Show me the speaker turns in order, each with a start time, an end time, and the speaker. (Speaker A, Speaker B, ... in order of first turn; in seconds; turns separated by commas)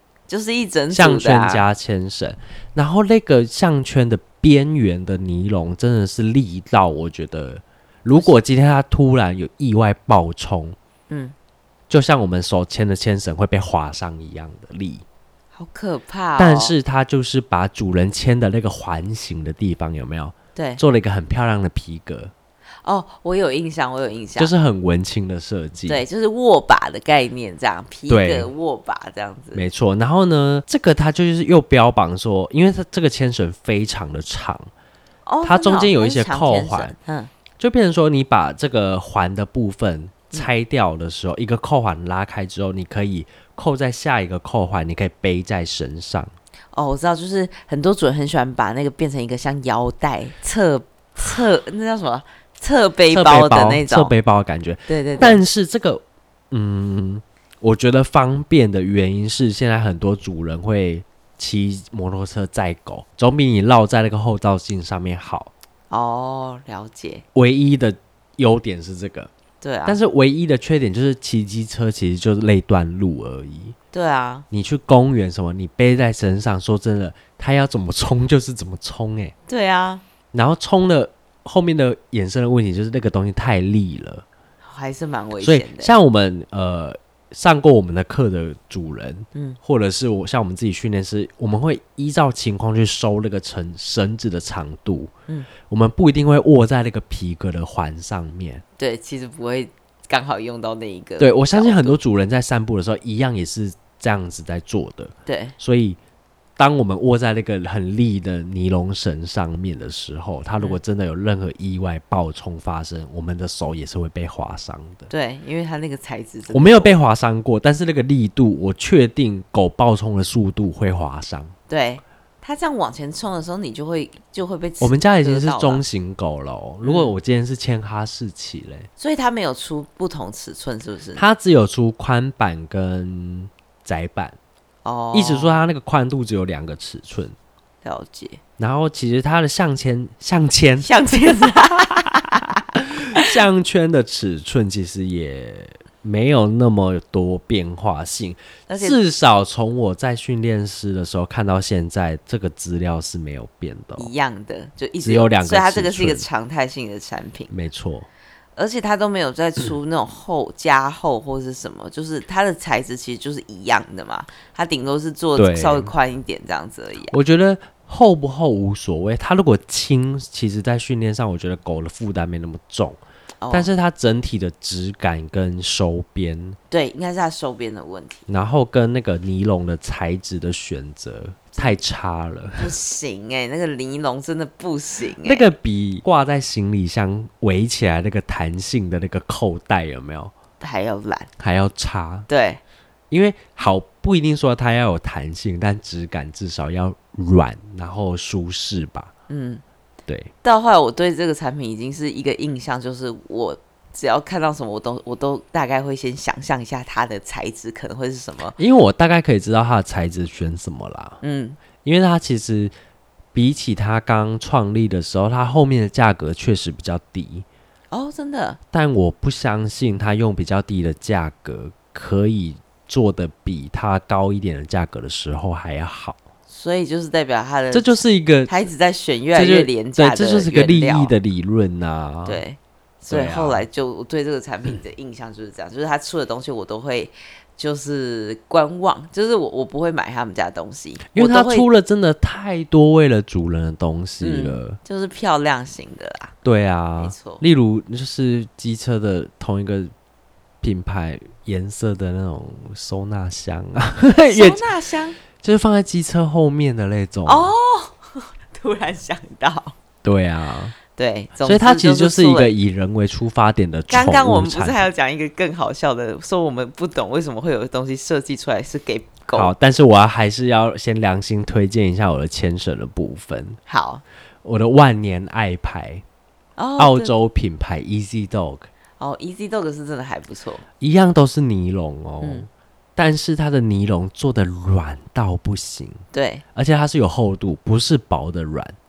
Speaker A: 0.3-1.6, Speaker B: 0.9-10.8, Speaker B: 11.9-15.0, Speaker A: 15.5-16.7, Speaker B: 16.4-22.3, Speaker A: 20.6-20.8, Speaker A: 22.8-24.5, Speaker B: 24.4-26.0, Speaker A: 25.9-29.6, Speaker B: 28.1-28.5, Speaker B: 29.5-34.7, Speaker A: 35.2-37.3, Speaker B: 35.4-36.9, Speaker B: 37.6-46.3, Speaker A: 46.7-54.1, Speaker B: 53.1-65.5, Speaker A: 54.9-55.4, Speaker A: 65.9-67.2, Speaker B: 67.3-69.3, Speaker A: 69.6-70.0, Speaker B: 69.8-73.8, Speaker A: 73.9-74.4, Speaker B: 74.5-79.3, Speaker A: 79.5-80.0, Speaker B: 80.3-84.2, Speaker A: 84.6-85.9, Speaker B: 85.4-98.6, Speaker A: 98.8-102.0, Speaker B: 101.2-106.0, Speaker A: 105.2-105.5, Speaker B: 106.6-115.1, Speaker A: 115.1-116.9, Speaker B: 116.5-121.5, Speaker A: 121.7-125.8, Speaker B: 124.8-128.9, Speaker A: 126.8-127.1, Speaker A: 129.0-131.2, Speaker B: 131.2-134.3, Speaker A: 134.8-135.6, Speaker B: 135.1-137.3, Speaker A: 137.8-138.4, Speaker B: 138.6-141.8, Speaker A: 140.8-143.3, Speaker B: 142.8-154.1, Speaker A: 148.7-149.0, Speaker A: 154.0-157.5, Speaker B: 155.0-156.2, Speaker B: 157.5-158.1, Speaker A: 158.6-167.2, Speaker B: 165.3-165.9, Speaker B: 167.1-173.0, Speaker A: 173.4-173.7, Speaker B: 173.5-176.6, Speaker A: 176.7-178.2, Speaker B: 178.3-182.7, Speaker A: 182.6-185.5, Speaker B: 185.2-190.3, Speaker A: 190.6-191.3, Speaker B: 191.4-192.3, Speaker A: 192.3-192.6, Speaker B: 193.1-199.1, Speaker A: 199.3-199.6, Speaker B: 200.1-200.3, Speaker A: 200.4-208.6, Speaker B: 208.6-211.2, Speaker A: 211.2-211.6, Speaker B: 211.8-212.7, Speaker B: 213.3-217.4, Speaker A: 217.9-218.6, Speaker B: 218.7-226.2, Speaker A: 226.5-231.1, Speaker B: 227.7-228.5, Speaker B: 229.3-232.4, Speaker A: 232.2-241.7, Speaker B: 233.1-233.6, Speaker B: 241.1-244.8, Speaker A: 244.2-246.3, Speaker B: 246.4-249.9, Speaker A: 247.0-247.4, Speaker B: 250.6-254.6, Speaker A: 254.1-255.2, Speaker B: 255.4-257.5, Speaker A: 257.2-259.8, Speaker B: 260.0-260.8, Speaker A: 260.9-262.5, Speaker B: 261.4-264.8, Speaker A: 263.9-269.5, Speaker B: 269.3-273.6, Speaker A: 273.7-274.0, Speaker B: 274.4-276.0, Speaker A: 276.6-277.1, Speaker B: 276.8-278.7, Speaker A: 279.0-280.6, Speaker B: 280.8-286.0, Speaker A: 282.2-282.5, Speaker A: 286.1-286.4, Speaker B: 286.5-288.8